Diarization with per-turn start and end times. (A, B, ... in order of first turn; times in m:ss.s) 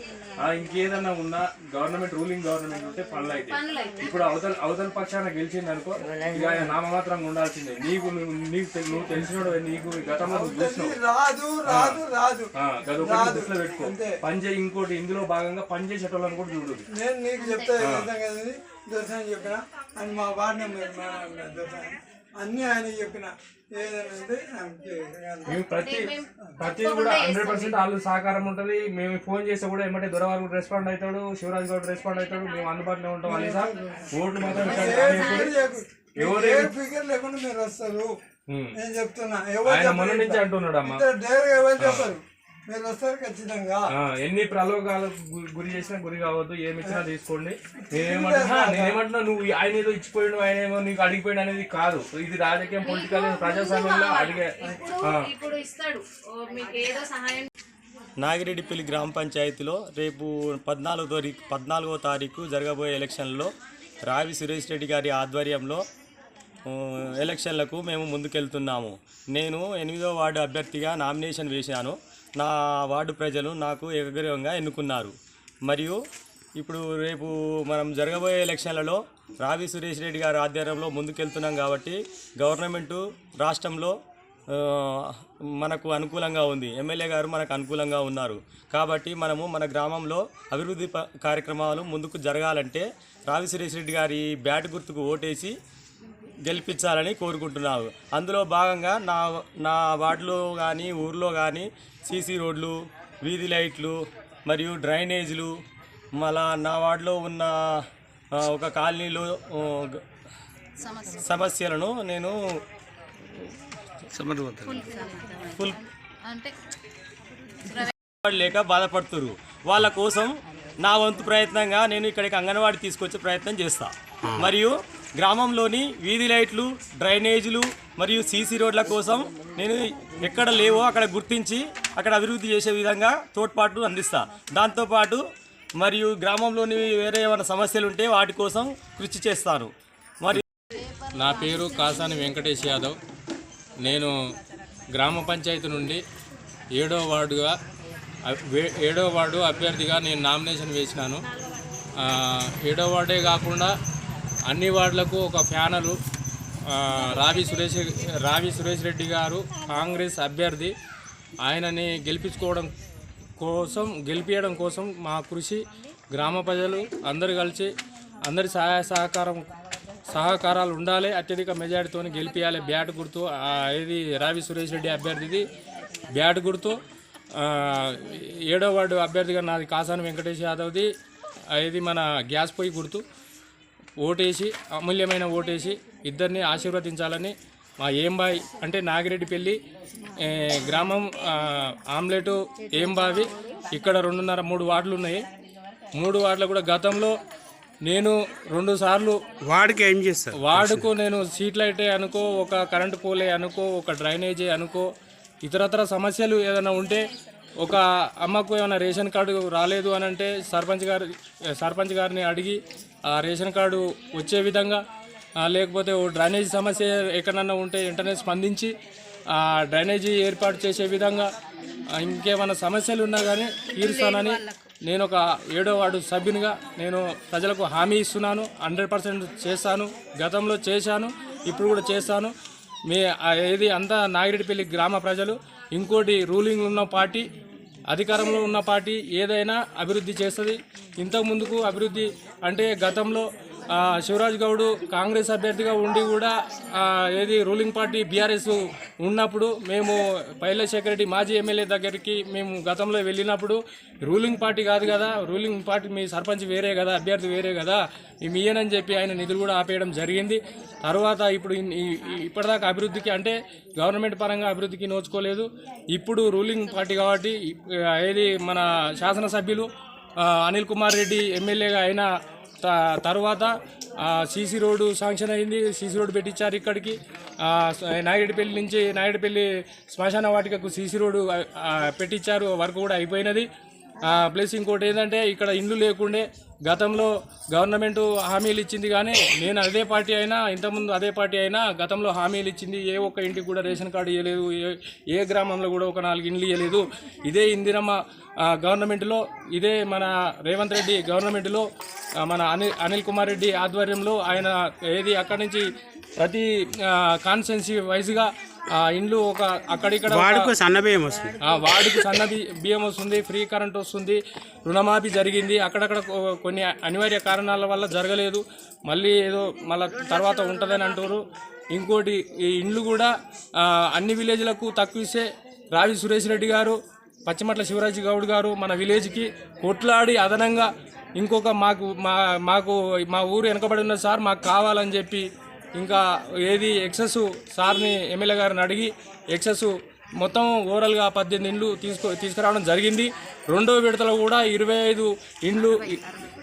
0:00.4-0:11.0 A
0:03.5-0:04.0 B
0:10.2-0:14.1 C
0:11.7-0:12.0 A
0:12.6-0:16.8 A
0:16.9-0:25.6 C
0:17.4-0:17.7 B
0:17.8-0:18.1 A
0:25.5-0:35.5 A
0:25.7-0:27.8 B
0:33.2-0:38.1 C
0:34.6-0:35.6 B
0:36.2-0:36.7 A
0:38.5-0:38.8 A
0:38.8-0:43.9 C
0:39.7-0:41.0 A
0:41.8-0:42.1 A
0:43.9-0:55.3 A
0:47.9-0:49.0 C
0:52.8-0:57.5 B
0:54.6-0:54.9 C
0:58.2-1:03.5 D
1:04.1-1:05.8 D
1:06.7-1:15.1 D
1:15.7-1:16.0 D
1:16.6-1:23.9 D
1:24.5-1:24.9 D
1:25.6-1:35.5 D
1:36.4-1:44.0 D
1:44.5-1:45.5 D
1:46.2-1:47.5 D
1:48.4-1:50.0 D
1:50.8-1:51.2 B
1:51.2-1:52.4 D
1:54.1-1:54.8 E
1:54.6-1:56.5 B
1:55.5-1:55.8 D
1:57.7-1:57.9 B
1:58.2-2:00.3 D
2:00.8-2:15.2 D
2:15.8-2:19.7 D
2:21.2-2:23.0 A
2:23.8-2:24.1 A
2:24.9-2:26.0 A
2:26.8-2:27.5 A
2:28.3-2:31.2 A
2:32.0-2:33.7 A
2:34.5-2:36.0 A
2:36.7-2:40.7 A
2:41.4-2:42.7 A
2:43.4-2:47.7 A
2:48.3-2:49.5 A
2:50.1-2:55.4 A
2:56.1-2:56.8 A
2:57.4-3:00.9 A
3:01.5-3:03.0 A
3:04.0-3:09.6 A
3:10.2-3:15.2 A
3:16.0-3:17.2 A
3:17.8-3:19.2 A
3:19.5-3:20.8 E
3:20.4-3:24.9 A
3:25.4-3:27.0 A
3:27.6-3:34.8 A
3:35.4-3:38.7 A
3:39.3-3:41.3 A
3:42.0-3:52.3 A
3:52.9-3:57.3 A
3:57.9-4:29.7 A
4:30.2-4:32.1 A
4:32.6-4:33.5 A
4:34.0-4:43.5 A
4:44.1-5:01.6 A
5:02.2-5:05.6 A
5:06.2-5:10.5 A
5:10.1-5:12.1 E
5:11.4-5:21.2 A
5:21.7-5:23.1 A
5:23.6-5:35.3 A
5:35.8-5:46.0 A